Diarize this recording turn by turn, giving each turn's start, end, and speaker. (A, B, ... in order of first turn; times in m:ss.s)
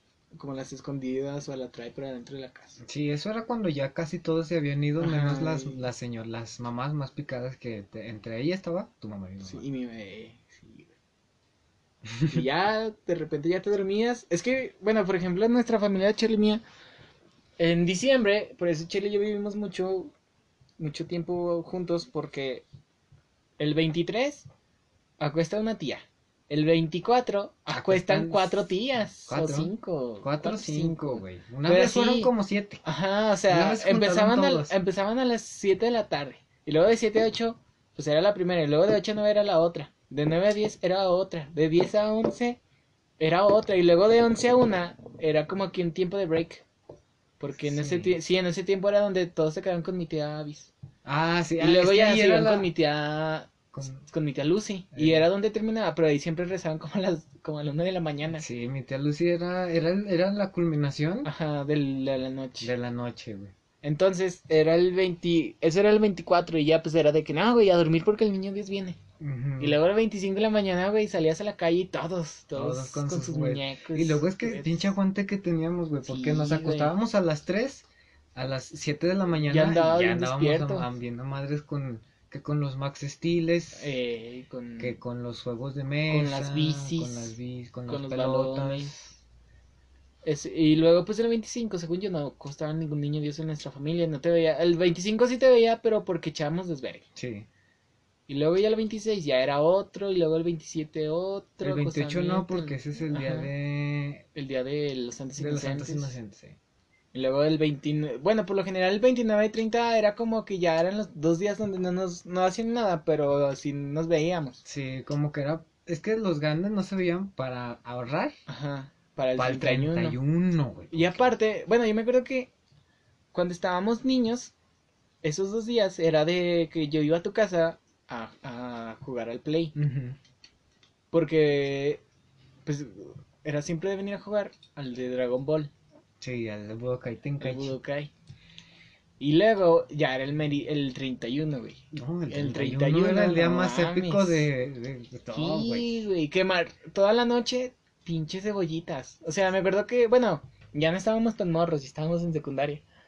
0:00.3-0:02.8 A
0:02.8-0:09.6 B
0:05.0-0:05.8 A
0:09.4-0:10.9 A
0:12.1-0:12.4 B
0:12.2-0:16.6 A
0:17.6-0:20.1 A
0:20.8-0:22.6 A
0:23.6-0:24.5 A
0:25.2-0:32.3 A
0:27.7-0:28.7 B
0:29.3-0:32.8 B
0:32.8-0:42.6 A
0:33.5-0:34.7 B
0:43.2-0:46.6 A
0:47.4-0:50.7 A
0:47.6-0:48.2 B
0:51.0-0:52.7 B
0:51.6-0:58.4 A
0:53.7-0:54.0 B
0:54.9-0:55.3 B
0:58.3-1:01.3 B
1:01.2-1:02.7 A
1:02.6-1:03.5 B
1:03.8-1:09.0 A
1:09.2-1:09.8 B
1:09.6-1:14.9 A
1:12.5-1:23.9 B
1:16.0-1:16.9 A
1:19.5-1:20.9 A
1:23.7-1:25.0 A
1:24.8-1:29.1 B
1:26.1-1:27.3 A
1:27.9-1:29.0 A
1:30.2-1:37.0 A
1:37.2-1:37.5 B
1:38.3-1:43.5 A
1:41.6-1:44.2 B
1:44.3-1:46.1 A
1:45.4-1:46.6 B
1:47.1-1:54.6 A
1:54.6-1:58.4 B
1:58.5-2:00.2 A
1:59.4-2:01.3 B
2:00.9-2:02.5 A
2:03.3-2:04.5 A
2:05.2-2:09.7 A
2:09.7-2:10.2 B
2:11.1-2:12.0 A
2:12.6-2:15.7 A
2:16.2-2:17.7 B
2:17.4-2:18.1 A
2:19.2-2:24.4 A
2:21.9-2:26.0 B
2:25.3-2:32.8 A